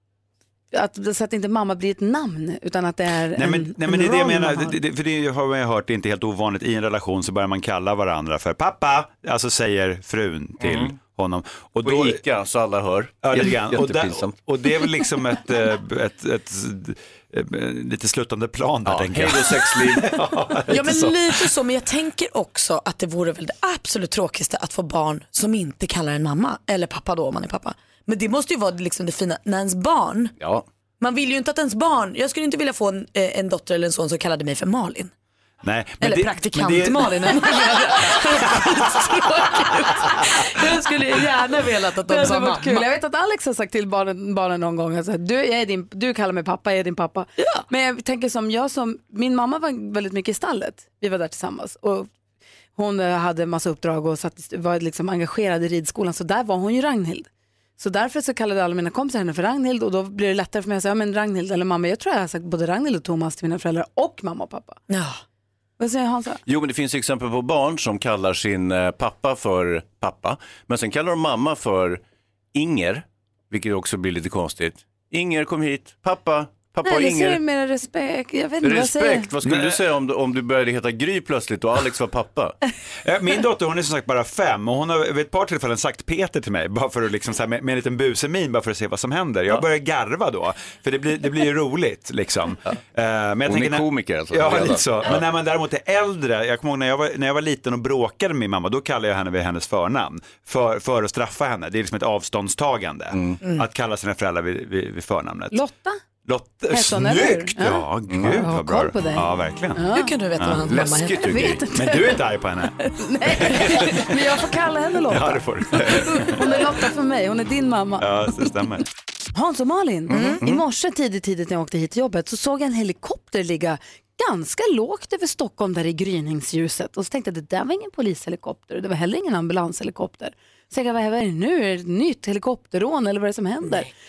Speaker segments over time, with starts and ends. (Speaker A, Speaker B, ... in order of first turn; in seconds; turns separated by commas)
Speaker A: 0.7-4.8, Speaker B: 3.4-12.2, Speaker C: 10.6-11.0, Speaker C: 11.8-14.5, Speaker B: 13.2-21.5, Speaker C: 18.9-20.8, Speaker D: 20.7-30.3, Speaker C: 30.4-30.7, Speaker D: 31.0-35.1, Speaker B: 35.6-37.2, Speaker D: 36.0-42.9, Speaker B: 38.6-39.0, Speaker A: 42.1-52.1, Speaker D: 47.4-47.6, Speaker A: 52.8-64.8, Speaker D: 64.9-65.2, Speaker A: 65.8-66.4, Speaker C: 66.5-72.0, Speaker C: 72.5-77.4, Speaker A: 76.8-79.3, Speaker C: 78.6-82.6, Speaker B: 79.5-79.8, Speaker B: 83.0-105.6, Speaker C: 93.5-95.2, Speaker C: 103.1-103.4, Speaker A: 105.5-106.0, Speaker B: 106.2-109.8, Speaker A: 106.7-110.1, Speaker C: 108.1-108.5, Speaker D: 109.9-111.5, Speaker C: 110.7-111.7, Speaker A: 111.3-112.2, Speaker B: 111.7-114.1, Speaker A: 112.9-118.1, Speaker B: 115.1-116.3, Speaker C: 115.7-116.3, Speaker B: 118.0-118.8, Speaker A: 119.3-133.9, Speaker C: 120.1-120.6, Speaker D: 120.1-120.4